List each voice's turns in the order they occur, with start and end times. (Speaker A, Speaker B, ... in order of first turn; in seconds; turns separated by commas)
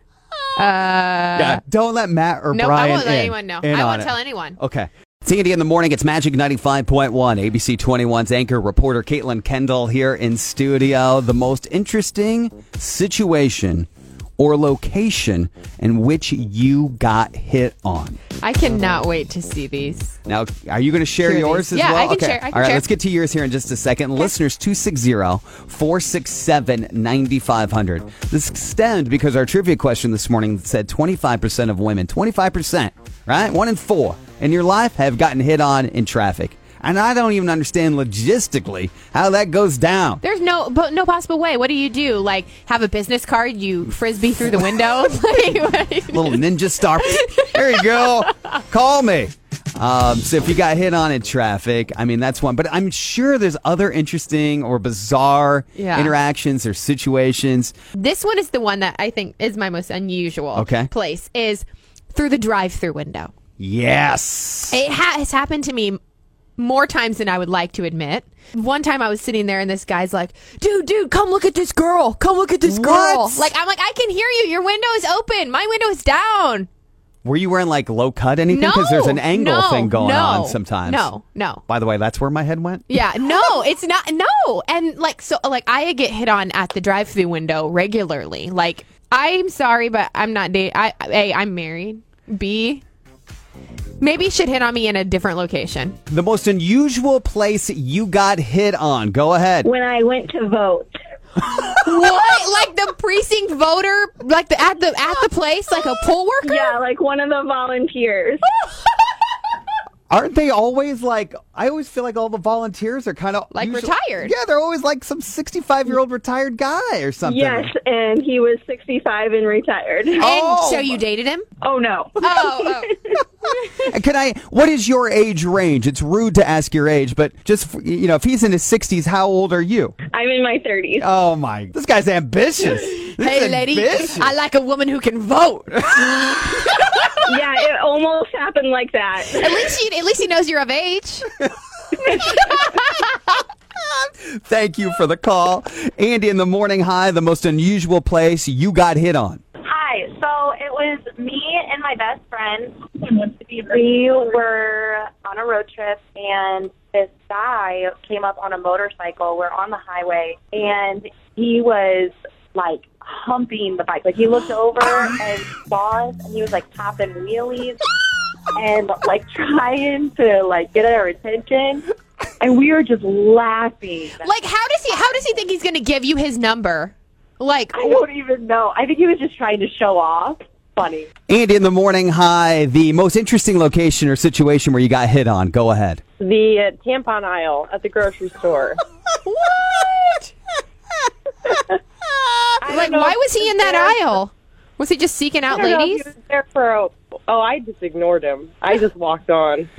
Speaker A: 0.6-1.6, Speaker B: 1.4-18.2, Speaker A: 2.5-4.6, Speaker A: 18.4-20.1, Speaker B: 20.3-40.2, Speaker A: 21.2-22.8, Speaker A: 40.2-48.1, Speaker B: 46.1-57.7, Speaker A: 55.8-56.1, Speaker A: 57.9-63.3, Speaker B: 60.5-60.9, Speaker B: 63.6-64.8, Speaker A: 64.7-66.0, Speaker A: 66.6-76.7, Speaker B: 72.6-73.5, Speaker B: 77.2-81.1, Speaker A: 78.5-81.6, Speaker B: 81.7-82.9, Speaker A: 82.9-92.8, Speaker A: 94.0-96.0, Speaker B: 96.1-99.7, Speaker C: 99.6-100.9, Speaker A: 101.7-106.8, Speaker C: 106.4-108.4, Speaker B: 110.1-117.7, Speaker A: 113.5-114.3, Speaker C: 117.2-120.2, Speaker B: 120.2-121.0, Speaker A: 120.2-121.5, Speaker C: 121.6-122.4, Speaker A: 122.2-123.0, Speaker B: 123.8-129.9, Speaker C: 130.1-131.1, Speaker B: 131.0-134.3, Speaker A: 133.2-137.1, Speaker B: 135.9-136.5, Speaker C: 137.2-139.7, Speaker A: 139.2-141.3, Speaker B: 144.0-149.4, Speaker D: 149.6-167.8, Speaker D: 168.5-171.8, Speaker D: 172.4-174.3, Speaker A: 174.2-178.0, Speaker D: 177.7-181.1, Speaker B: 181.3-186.0, Speaker E: 186.2-188.8, Speaker A: 189.2-190.3, Speaker A: 192.6-196.1, Speaker E: 195.5-199.7